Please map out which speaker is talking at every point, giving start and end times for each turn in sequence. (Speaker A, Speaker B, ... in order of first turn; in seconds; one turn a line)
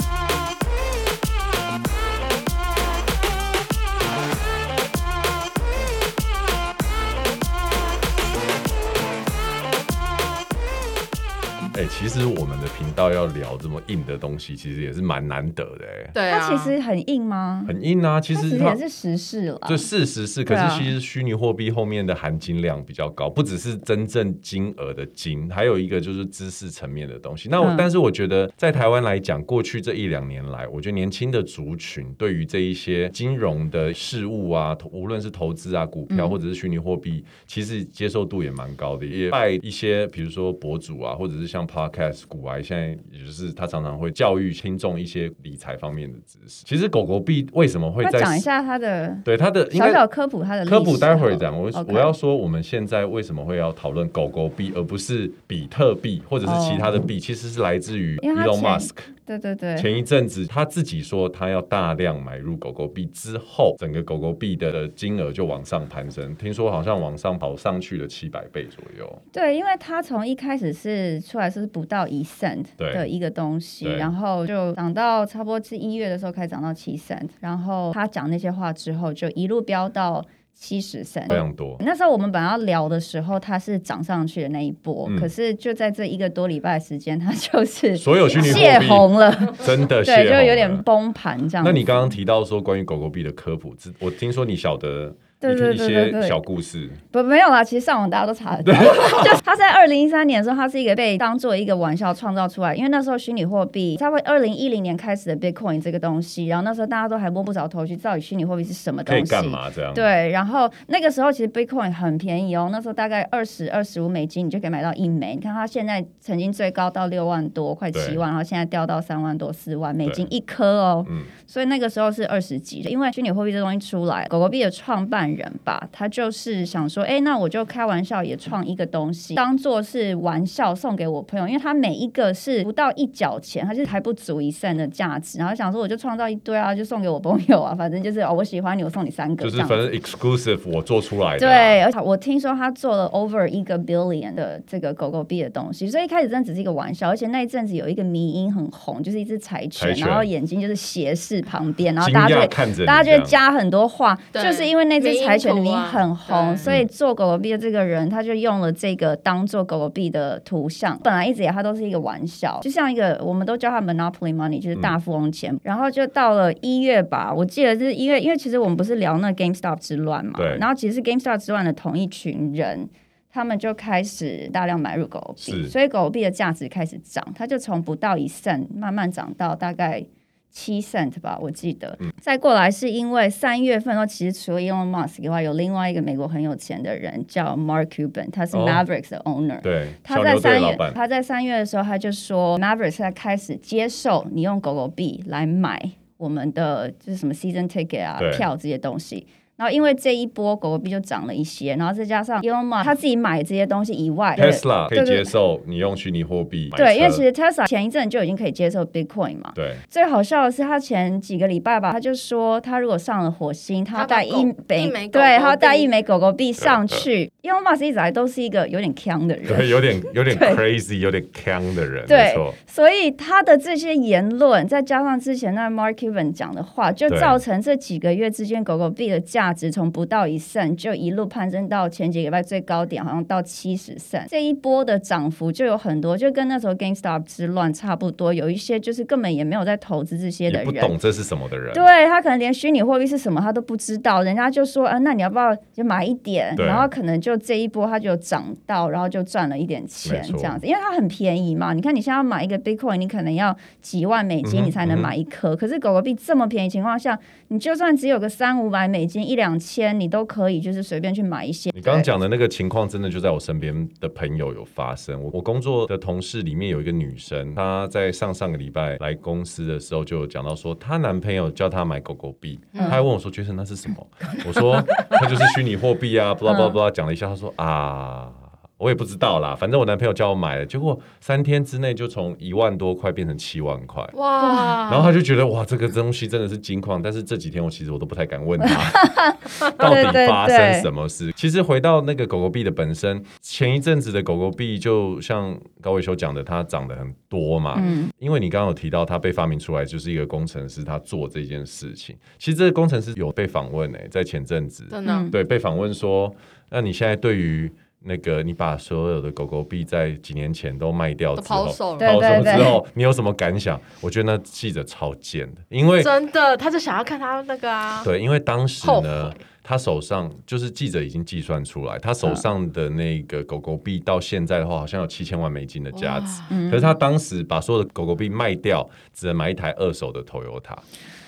Speaker A: 11.7-16.1
Speaker B: 16.1-16.7
Speaker C: 16.3-17.7
Speaker A: 17.6-18.8
Speaker C: 18.3-19.9
Speaker A: 19.6-48.5
Speaker C: 20.5-20.9
Speaker C: 27.6-27.9
Speaker C: 36.1-36.4
Speaker C: 48.0-52.1
Speaker A: 49.2-50.0
Speaker A: 50.6-59.1
Speaker C: 56.4-57.1
Speaker C: 58.2-59.9
Speaker A: 59.8-69.2
Speaker C: 69.3-91.8
Speaker A: 72.8-73.1
Speaker A: 73.8-74.1
Speaker A: 81.3-81.8
Speaker A: 85.0-85.3
Speaker A: 88.0-90.8
Speaker A: 91.6-97.0
Speaker C: 95.4-96.4
Speaker C: 97.1-139.8
Speaker A: 98.6-99.4
Speaker A: 109.1-110.1
Speaker A: 117.9-118.2
Speaker A: 121.0-121.3
Speaker A: 139.4-141.8
Speaker C: 141.4-205.3
Speaker A: 149.8-150.3
Speaker A: 152.0-153.3
Speaker B: 154.3-156.7
Speaker A: 170.3-170.6
Speaker A: 175.4-175.7
Speaker A: 188.5-188.8
Speaker A: 189.6-190.9
Speaker A: 198.2-198.5
Speaker A: 204.4-207.2
Speaker C: 206.7-219.8
Speaker A: 209.5-209.8
Speaker B: 213.9-215.9
Speaker A: 216.6-217.0
Speaker A: 219.5-222.6
Speaker C: 220.3-220.6
Speaker C: 222.1-240.9
Speaker A: 227.1-227.4
Speaker A: 240.5-241.9
Speaker C: 241.7-262.1
Speaker A: 246.6-246.9
Speaker A: 250.0-250.6
Speaker A: 254.4-255.1
Speaker A: 261.7-284.1
Speaker B: 272.7-273.0
Speaker B: 274.4-275.4
Speaker C: 276.5-276.8
Speaker B: 284.1-285.1
Speaker C: 284.4-284.8
Speaker A: 284.9-316.1
Speaker C: 288.6-290.9
Speaker C: 297.7-298.1
Speaker B: 304.9-305.3
Speaker C: 305.0-305.3
Speaker B: 311.4-312.6
Speaker C: 312.0-312.8
Speaker B: 316.0-318.1
Speaker A: 318.0-330.8
Speaker B: 318.8-319.4
Speaker B: 325.9-326.5
Speaker C: 326.5-327.0